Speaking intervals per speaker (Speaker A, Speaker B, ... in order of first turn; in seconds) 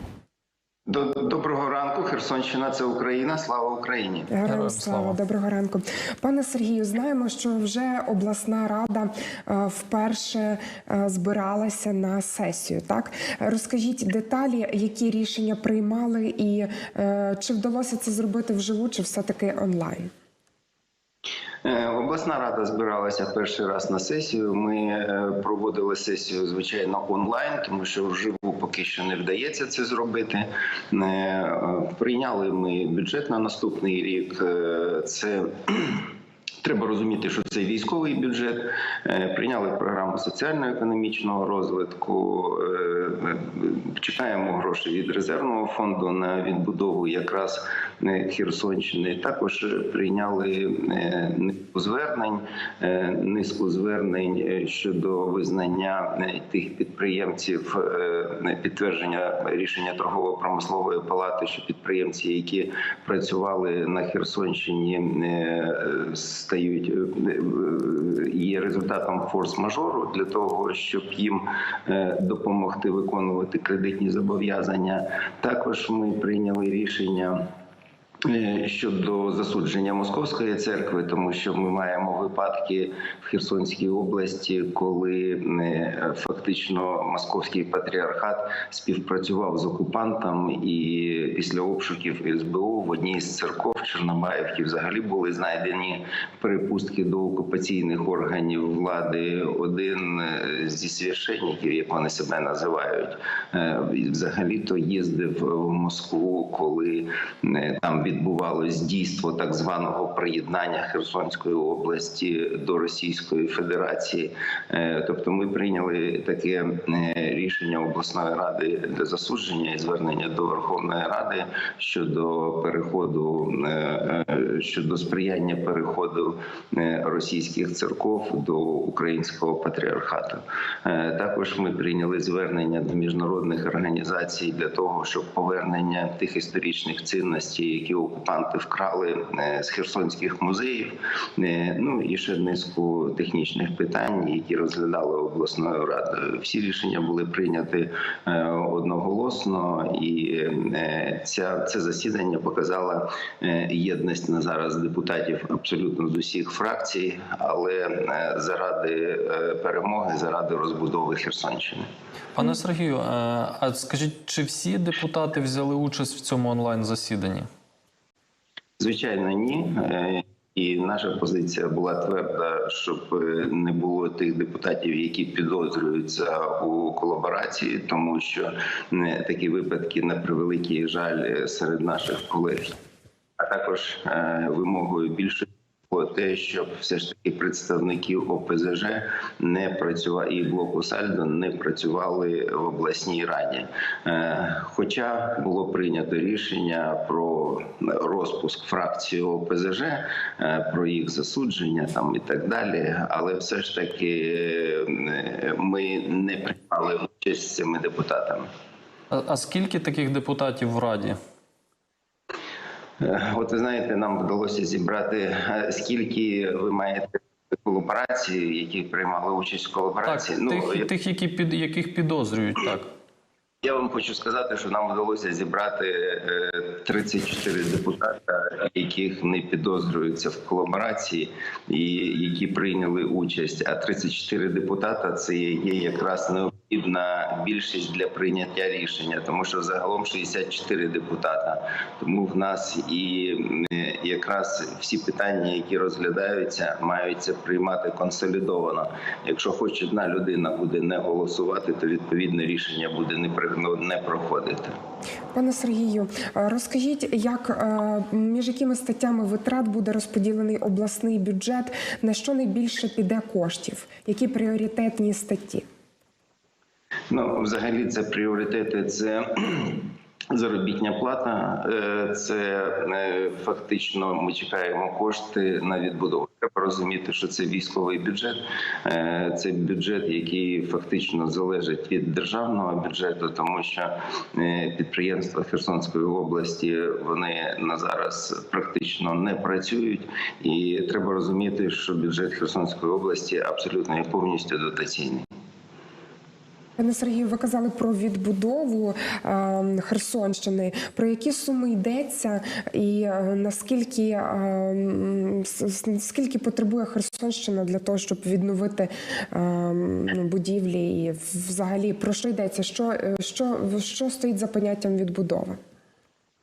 Speaker A: 0.9-4.3, 21.6-36.1, 36.6-77.4, 78.3-161.9, 168.8-182.8, 183.4-208.5, 213.0-220.9, 223.6-254.7, 267.1-295.2
Speaker B: 4.3-20.1, 255.3-265.6, 296.8-315.6
Speaker C: 4.5-5.2, 162.3-167.5, 209.1-211.2, 220.1-222.9